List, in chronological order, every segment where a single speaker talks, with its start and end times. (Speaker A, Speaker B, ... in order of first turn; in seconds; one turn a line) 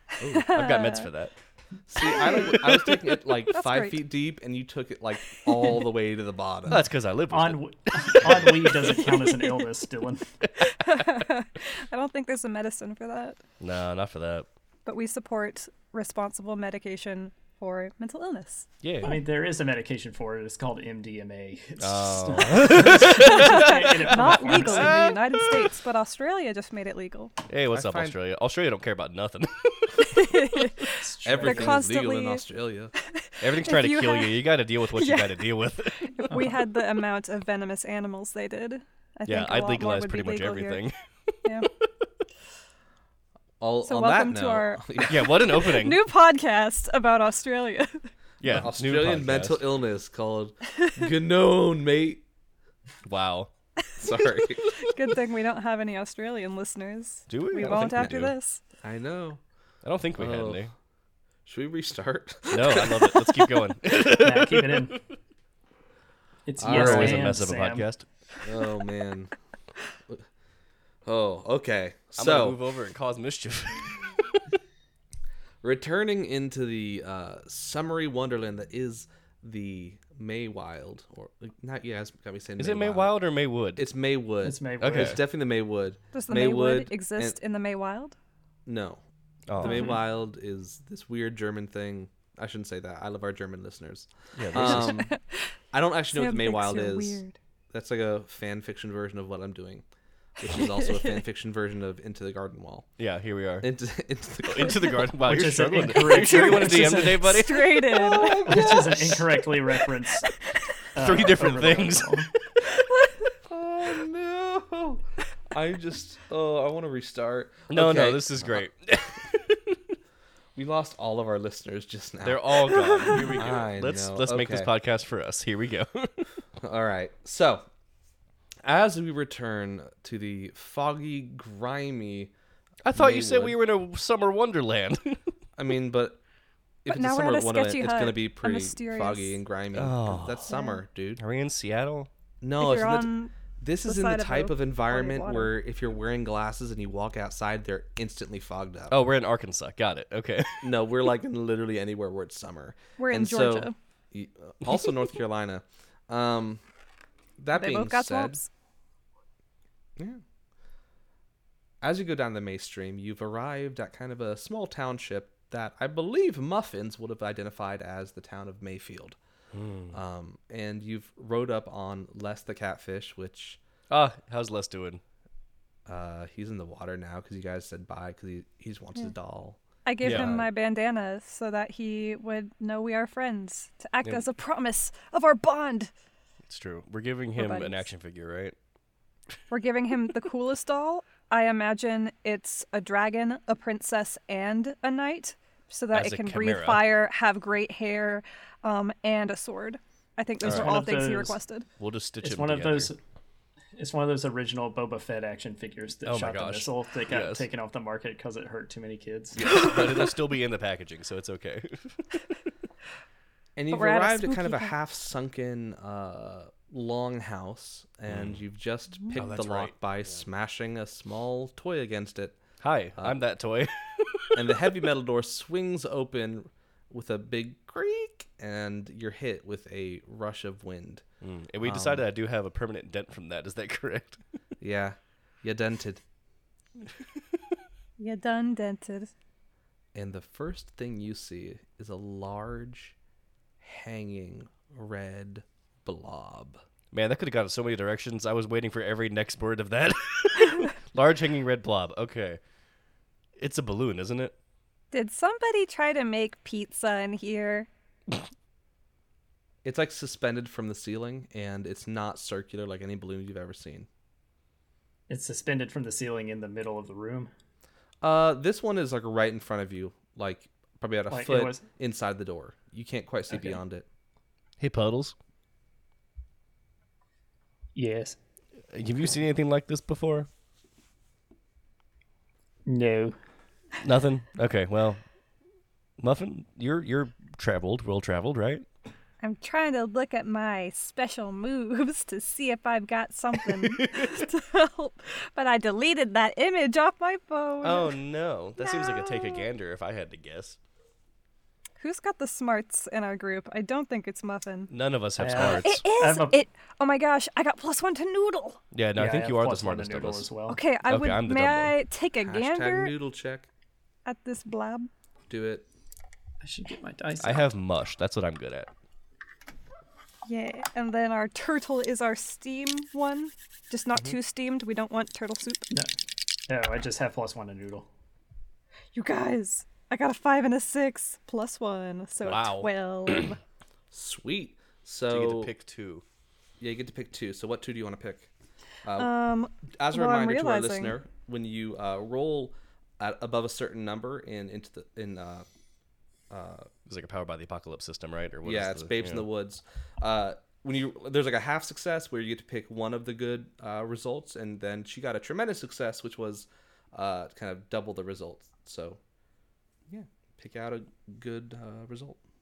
Speaker A: 0.2-0.5
Speaker B: 0.2-1.1
Speaker C: 0.3-1.3
Speaker A: 1.9-6.8
Speaker B: 2.0-2.6
Speaker C: 2.1-3.0
Speaker B: 3.5-4.0
Speaker B: 5.4-5.8
Speaker C: 6.7-9.2
Speaker D: 7.3-10.3
Speaker B: 9.1-9.7
Speaker B: 10.6-13.4
Speaker C: 13.6-14.5
Speaker B: 14.8-18.7
Speaker C: 18.8-19.2
Speaker D: 19.0-25.1
Speaker C: 21.8-25.6
Speaker B: 23.1-27.3
Speaker C: 27.5-30.7
Speaker A: 27.7-28.1
Speaker B: 30.0-32.4
Speaker D: 31.0-31.8
Speaker A: 31.2-32.9
Speaker B: 33.0-34.4
Speaker C: 33.4-36.5
Speaker B: 34.9-40.8
Speaker C: 39.3-41.9
Speaker A: 43.6-45.4
Speaker B: 43.8-48.1
Speaker C: 45.0-46.0
Speaker C: 48.4-49.6
Speaker A: 48.4-52.2
Speaker B: 50.7-51.0
Speaker C: 53.1-53.5
Speaker A: 54.0-54.7
Speaker B: 54.0-58.6
Speaker C: 57.3-58.3
Speaker A: 57.6-59.4
Speaker C: 59.8-60.7
Speaker A: 60.2-60.7
Speaker A: 61.5-63.4
Speaker C: 62.5-65.0
Speaker D: 64.1-64.9
Speaker D: 66.5-67.9
Speaker A: 66.6-67.3
Speaker C: 66.6-68.0
Speaker A: 68.4-69.3
Speaker A: 71.0-72.6
Speaker C: 72.2-74.4
Speaker A: 75.6-83.2
Speaker C: 82.6-83.9
Speaker A: 83.8-87.4
Speaker D: 84.4-85.2
Speaker C: 84.8-85.2
Speaker B: 86.1-88.2
Speaker A: 88.7-89.0
Speaker C: 89.5-90.0
Speaker A: 89.6-95.1
Speaker B: 89.6-90.0
Speaker C: 94.3-94.9
Speaker B: 94.6-95.5
Speaker A: 95.7-99.8
Speaker B: 96.1-97.3
Speaker A: 100.4-102.9
Speaker B: 100.4-101.2
Speaker C: 103.0-103.7
Speaker A: 103.6-105.2
Speaker C: 104.4-107.9
Speaker D: 105.2-107.4
Speaker B: 106.1-108.5
Speaker A: 107.8-109.3
Speaker D: 108.4-110.3
Speaker B: 110.3-110.8
Speaker D: 110.9-112.3
Speaker C: 111.0-112.3
Speaker B: 112.7-113.3
Speaker A: 113.5-118.6
Speaker C: 117.7-119.8
Speaker A: 120.5-124.7
Speaker C: 122.2-126.4
Speaker B: 122.7-123.2
Speaker A: 126.6-127.7
Speaker A: 128.6-132.3
Speaker C: 132.8-135.3
Speaker A: 132.9-133.6
Speaker A: 135.6-136.2
Speaker A: 136.8-141.2
Speaker B: 136.9-139.4
Speaker C: 139.7-140.6
Speaker B: 140.5-140.8
Speaker C: 141.2-142.1
Speaker A: 142.4-148.9
Speaker B: 142.6-143.3
Speaker B: 143.8-145.5
Speaker C: 148.9-150.8
Speaker A: 150.6-156.6
Speaker B: 153.0-153.7
Speaker A: 157.4-158.4
Speaker B: 157.5-158.5
Speaker A: 161.8-169.2
Speaker C: 169.5-170.0
Speaker A: 169.9-173.6
Speaker C: 173.9-175.0
Speaker A: 175.9-180.5
Speaker B: 179.8-185.9
Speaker C: 180.0-180.3
Speaker C: 186.5-188.5
Speaker B: 187.3-187.8
Speaker B: 189.5-201.7
Speaker C: 195.9-196.9
Speaker C: 200.4-200.7
Speaker D: 200.4-201.4
Speaker C: 201.8-202.9
Speaker D: 202.2-203.0
Speaker D: 203.7-209.4
Speaker C: 206.0-207.5
Speaker C: 209.4-212.3
Speaker B: 209.5-210.1
Speaker A: 213.6-222.4
Speaker B: 213.7-214.7
Speaker C: 218.1-218.4
Speaker C: 219.1-220.2
Speaker C: 222.6-224.6
Speaker A: 224.3-231.0
Speaker C: 231.2-234.2
Speaker A: 231.6-232.1
Speaker A: 234.6-236.0
Speaker B: 238.0-239.1
Speaker A: 239.9-242.9
Speaker A: 243.6-246.6
Speaker C: 246.9-252.4
Speaker C: 253.4-254.3
Speaker B: 254.9-257.7
Speaker A: 259.6-263.9
Speaker D: 265.1-267.3
Speaker A: 268.0-273.9
Speaker D: 271.1-271.6
Speaker D: 273.3-273.6
Speaker C: 274.6-275.1
Speaker D: 277.8-278.1
Speaker C: 278.7-280.3
Speaker D: 282.6-283.2
Speaker C: 283.8-285.0
Speaker C: 286.0-288.6
Speaker B: 289.2-298.0
Speaker C: 293.5-294.2
Speaker C: 297.6-300.6
Speaker B: 298.6-299.5
Speaker B: 301.8-304.7
Speaker C: 304.7-305.8
Speaker D: 305.2-306.4
Speaker B: 305.4-308.6
Speaker C: 308.7-310.2
Speaker D: 308.9-310.6
Speaker B: 310.5-312.9
Speaker C: 310.9-311.7
Speaker A: 312.2-313.5
Speaker B: 314.1-314.9
Speaker A: 315.3-315.6
Speaker D: 316.4-317.5
Speaker C: 317.2-318.7
Speaker B: 320.2-325.7
Speaker D: 326.5-327.9
Speaker B: 328.9-333.4
Speaker C: 332.2-332.7
Speaker A: 333.9-335.5
Speaker C: 335.1-336.0
Speaker A: 336.6-338.3
Speaker A: 338.8-339.1
Speaker B: 339.0-340.9
Speaker A: 339.8-345.4
Speaker A: 346.3-346.7
Speaker C: 346.9-349.2
Speaker A: 348.4-359.0
Speaker A: 359.9-362.2